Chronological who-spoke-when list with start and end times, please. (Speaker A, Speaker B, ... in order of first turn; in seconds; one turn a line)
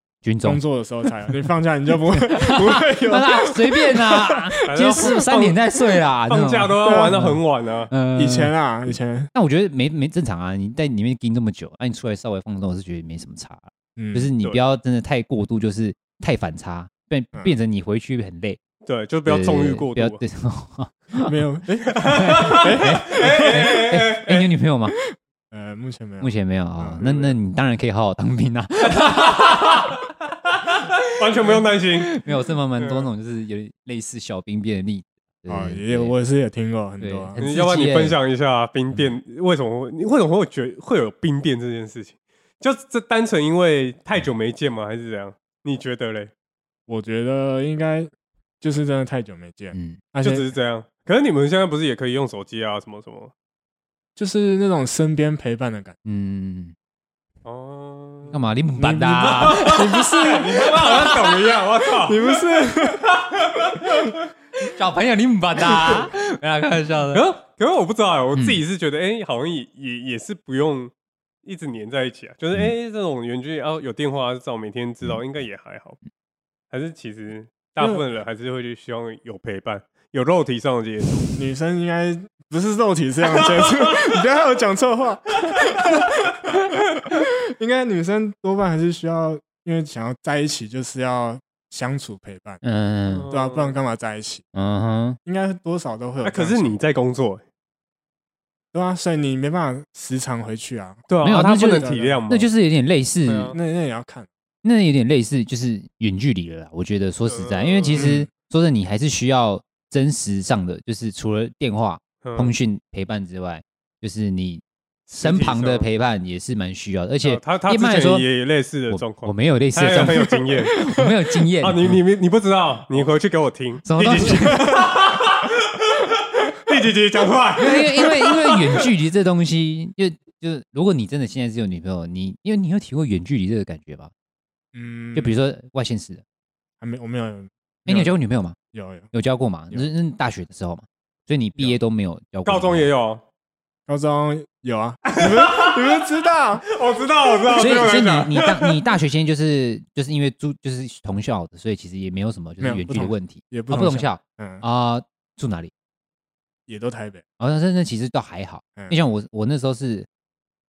Speaker A: 0.2-0.6
Speaker B: 0.4-5.1
Speaker A: 2.3-7.4
Speaker C: 4.7-5.6
Speaker C: 6.3-7.9
Speaker B: 6.8-7.2
Speaker A: 7.9-8.5
Speaker B: 8.1-9.3
Speaker A: 9.3-18.6
Speaker B: 13.9-14.3
Speaker C: 18.9-20.2
Speaker A: 19.2-21.4
Speaker B: 21.2-23.6
Speaker C: 21.8-24.5
Speaker A: 22.1-24.9
Speaker B: 25.1-27.0
Speaker A: 26.2-29.9
Speaker C: 27.0-27.4
Speaker C: 28.9-29.8
Speaker C: 31.1-32.1
Speaker A: 31.4-36.1
Speaker C: 32.8-33.1
Speaker B: 35.5-37.4
Speaker A: 37.0-38.2
Speaker C: 37.4-46.3
Speaker B: 46.9-50.5
Speaker A: 49.7-50.0
Speaker C: 50.2-53.3
Speaker B: 54.1-56.0
Speaker A: 56.0-56.7
Speaker C: 57.4-58.4
Speaker A: 58.3-61.1
Speaker B: 58.8-61.2
Speaker C: 59.3-62.9
Speaker B: 61.9-63.1
Speaker C: 63.4-64.2
Speaker A: 64.6-67.2
Speaker C: 67.1-70.9
Speaker A: 68.3-68.6
Speaker C: 71.4-76.0
Speaker C: 76.7-81.4
Speaker B: 77.8-78.0
Speaker B: 81.4-92.6
Speaker C: 83.4-84.1
Speaker C: 85.5-85.9
Speaker A: 92.6-93.3
Speaker C: 93.1-93.8
Speaker B: 93.3-94.4
Speaker A: 94.5-95.2
Speaker B: 95.2-96.8
Speaker C: 96.2-97.4
Speaker B: 98.7-102.3
Speaker C: 101.1-102.5
Speaker A: 101.2-103.5
Speaker C: 103.2-103.6
Speaker B: 103.5-104.3
Speaker A: 104.6-114.6
Speaker C: 107.2-108.1
Speaker B: 107.9-108.3
Speaker C: 112.2-112.5
Speaker C: 115.1-115.9
Speaker A: 115.1-118.3
Speaker C: 117.2-120.8
Speaker A: 118.9-122.0
Speaker C: 121.6-128.9
Speaker A: 123.8-124.8
Speaker A: 127.6-134.1
Speaker B: 134.7-135.4
Speaker A: 135.1-136.2
Speaker B: 136.8-138.1
Speaker A: 137.9-138.6
Speaker B: 138.7-139.1
Speaker A: 139.1-142.9
Speaker C: 142.4-143.2
Speaker B: 143.9-146.7
Speaker C: 145.1-146.1
Speaker C: 146.7-148.8
Speaker A: 147.5-155.7
Speaker B: 152.6-154.6
Speaker B: 156.7-157.2
Speaker A: 157.4-160.1